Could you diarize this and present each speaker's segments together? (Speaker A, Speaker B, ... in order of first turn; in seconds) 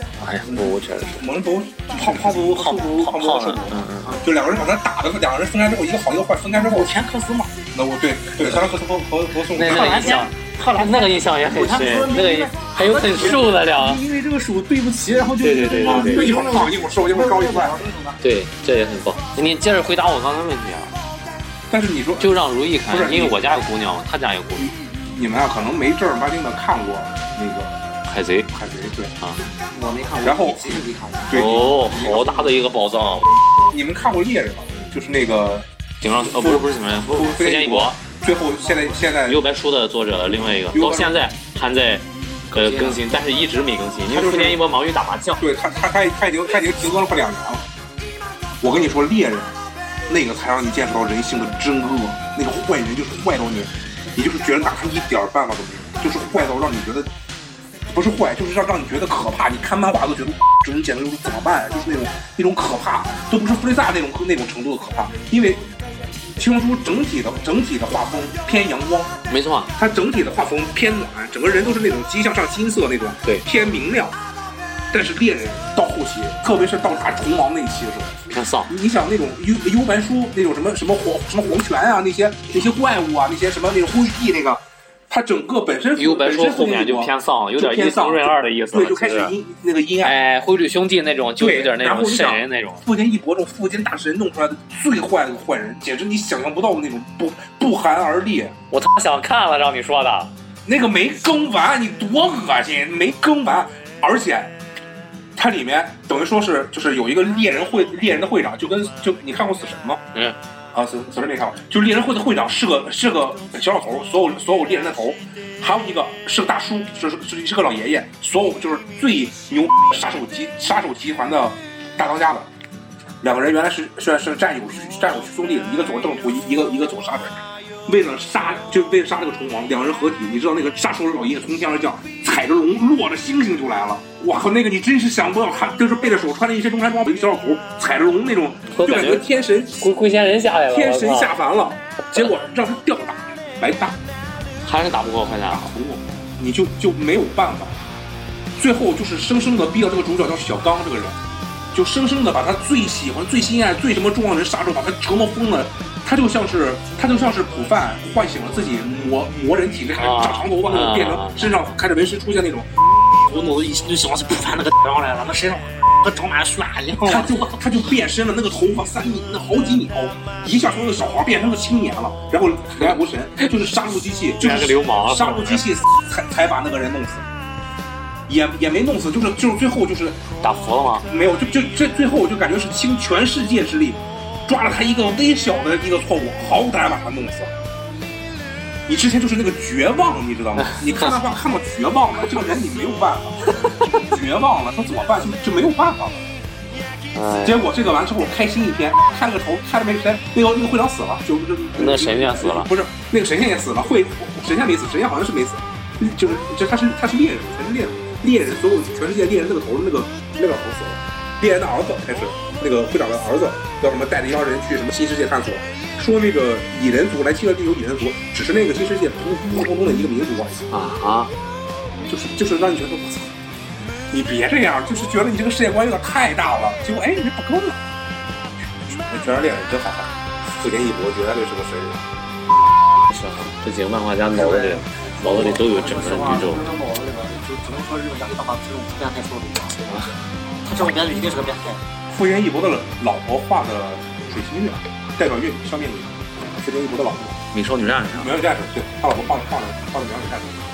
Speaker A: 0.2-1.2, 2.8-4.2, 9.5-14.0, 15.4-16.3, 18.2-20.9, 22.2-24.8, 28.1-28.5, 31.3-33.3, 36.0-38.0, 39.3-45.5, 69.3-69.7, 78.3-78.7, 86.0-89.3, 90.0-92.8, 98.7-100.3, 138.7-139.2, 139.8-141.4, 144.6-145.7, 159.9-161.5, 174.4-175.7, 180.4-181.1, 197.1-197.7, 201.8-202.7, 220.7-221.3, 233.1-236.7, 239.9-240.1, 247.5-248.4
Speaker B: 0.5-7.0, 7.7-10.3, 15.8-17.8, 21.7-22.3, 22.9-23.5, 25.1-27.9, 28.5-29.1, 30.2-32.4, 33.7-39.4, 40.5-41.2, 42.5-43.0, 44.1-44.6, 45.4-47.6, 48.6-57.1, 57.9-65.6, 66.4-69.1, 69.8-74.2, 74.9-78.2, 78.7-90.2, 91.4-98.6, 100.7-104.5, 105.4-110.0, 110.7-122.5, 123.2-139.8, 140.7-144.0, 145.5-147.8, 148.5-151.2, 151.7-162.7, 167.0-177.3, 178.3-180.2, 181.1-187.6, 188.9-196.2, 197.4-220.7, 222.1-223.3, 224.1-227.8, 228.9-232.0, 242.1-247.4, 248.1-250.6
Speaker C: 1.9-3.1, 6.5-7.6, 9.6-18.2, 29.7-31.4, 31.9-32.3, 163.2-167.6, 234.3-239.8, 240.6-241.8